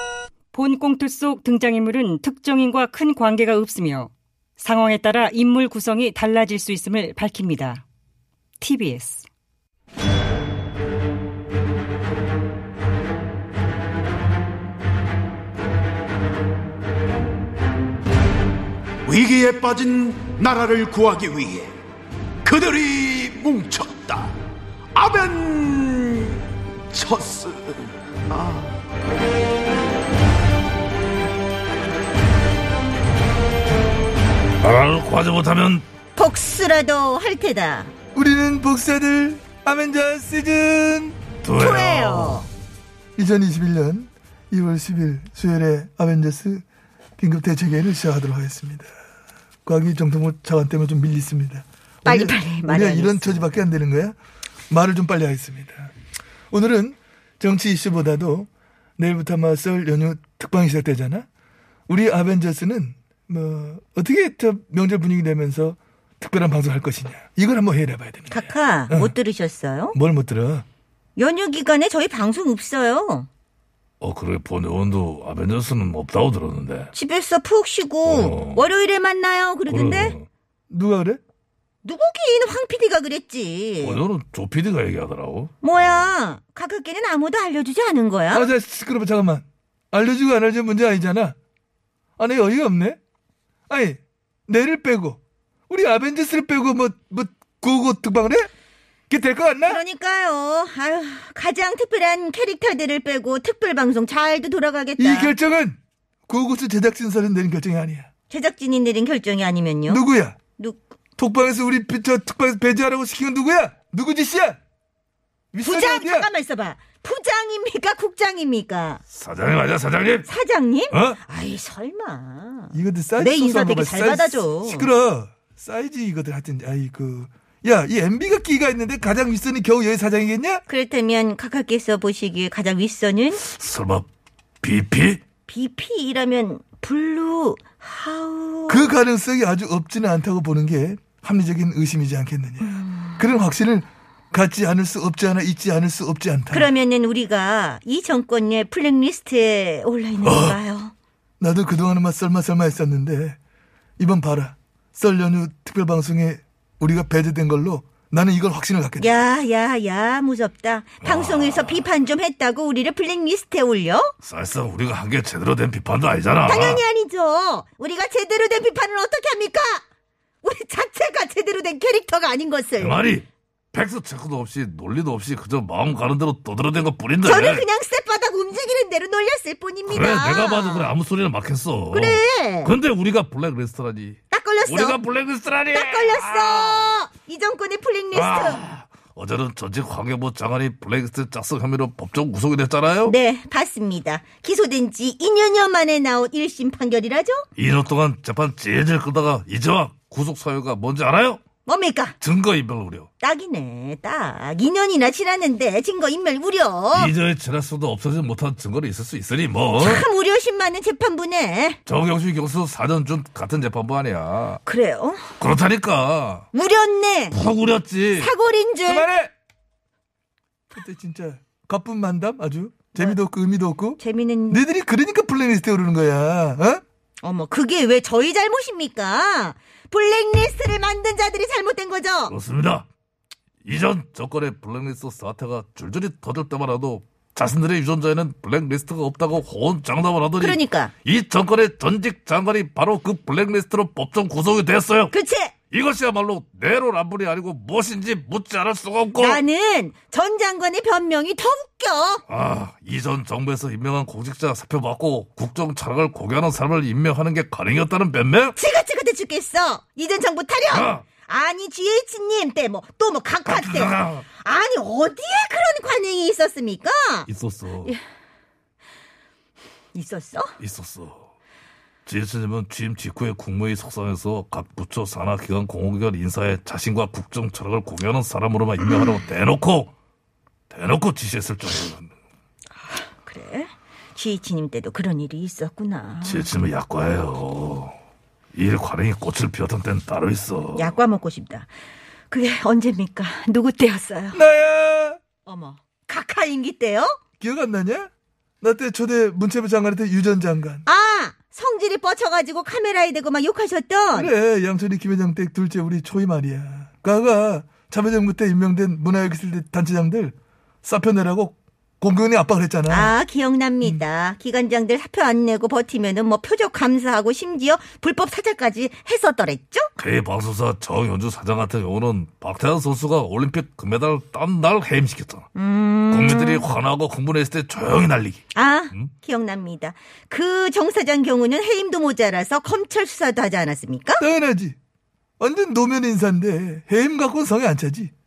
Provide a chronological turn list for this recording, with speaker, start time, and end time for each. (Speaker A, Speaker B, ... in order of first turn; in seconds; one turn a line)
Speaker A: 0.5-7.8
Speaker A: 8.6-9.3
Speaker B: 19.1-21.7
Speaker B: 22.5-24.3
Speaker B: 25.0-26.1
Speaker B: 26.9-27.7
Speaker C: 34.6-35.9
Speaker D: 36.1-37.9
Speaker E: 38.1-41.2
Speaker C: 41.4-42.5
Speaker D: 41.5-42.5
Speaker E: 43.2-46.6
Speaker E: 47.2-48.9
Speaker E: 49.6-54.1
Speaker D: 52.0-53.6
Speaker E: 54.7-55.9
Speaker E: 56.5-61.3
Speaker E: 61.9-69.1
Speaker D: 68.3-70.0
Speaker E: 69.9-70.7
Speaker D: 71.2-73.3
Speaker C: 74.0-76.9
Speaker D: 76.9-80.1
Speaker C: 78.0-78.6
Speaker C: 79.7-80.3
Speaker E: 80.7-81.2
Speaker D: 81.8-84.0
Speaker C: 83.8-85.5
Speaker D: 85.6-88.5
Speaker E: 88.3-91.4
Speaker E: 92.2-93.0
Speaker E: 93.7-98.5
Speaker E: 99.1-99.8
Speaker D: 99.7-105.3
Speaker E: 105.0-108.1
Speaker D: 108.3-110.0
Speaker E: 109.9-110.4
Speaker E: 111.2-114.6
Speaker E: 115.5-116.3
Speaker D: 115.6-119.0
Speaker C: 119.1-120.3
Speaker D: 120.3-124.9
Speaker C: 120.9-121.2
Speaker E: 122.7-130.6
Speaker D: 130.7-133.4
Speaker C: 133.4-134.1
Speaker C: 134.6-135.2
Speaker D: 135.5-138.9
Speaker E: 138.7-146.7
Speaker D: 142.7-143.2
Speaker D: 146.5-150.9
Speaker C: 150.3-150.5
Speaker E: 151.4-153.4
Speaker E: 154.0-159.1
Speaker D: 159.0-164.1
Speaker C: 161.0-161.9
Speaker C: 164.2-166.8
Speaker D: 166.5-169.8
Speaker D: 170.4-173.0
Speaker C: 172.8-177.7
Speaker D: 177.2-180.9
Speaker C: 179.9-186.9
Speaker D: 181.9-182.7
Speaker D: 184.3-185.0
Speaker D: 185.7-188.6
Speaker C: 188.1-193.1
Speaker D: 193.1-197.5
Speaker C: 197.6-201.4
Speaker D: 201.7-202.2
Speaker C: 202.2-203.1
Speaker D: 203.2-207.1
Speaker C: 206.9-210.1
Speaker D: 209.8-211.8
Speaker C: 211.9-214.6
Speaker D: 214.7-215.2
Speaker C: 215.4-216.5
Speaker D: 216.5-217.4
Speaker C: 217.3-218.3
Speaker D: 218.2-219.1
Speaker E: 218.9-219.3
Speaker E: 220.7-224.0
Speaker D: 224.0-224.6
Speaker E: 224.5-226.8
Speaker D: 227.2-232.3
Speaker C: 232.3-232.9
Speaker C: 233.6-245.1
Speaker D: 240.4-240.9
Speaker D: 245.1-245.5
Speaker C: 245.7-249.4
Speaker D: 249.2-252.2
Speaker C: 252.3-258.6
Speaker D: 258.6-267.3
Speaker C: 260.7-261.0
Speaker C: 263.4-264.3
Speaker C: 267.3-267.9
Speaker D: 269.9-270.5
Speaker C: 270.6-271.3
Speaker C: 272.1-279.9
Speaker C: 280.7-282.1
Speaker D: 283.2-286.5
Speaker C: 286.2-287.9
Speaker C: 288.5-291.0
Speaker D: 290.8-291.7
Speaker D: 292.3-294.4
Speaker E: 294.3-295.2
Speaker D: 295.4-297.2
Speaker E: 297.4-298.1
Speaker E: 298.6-300.9
Speaker D: 300.9-304.3
Speaker E: 304.1-313.1
Speaker D: 312.9-319.9
Speaker C: 320.0-325.5
Speaker D: 325.6-326.7
Speaker C: 326.1-329.1
Speaker D: 328.5-334.2
Speaker E: 334.2-334.8
Speaker E: 335.4-338.1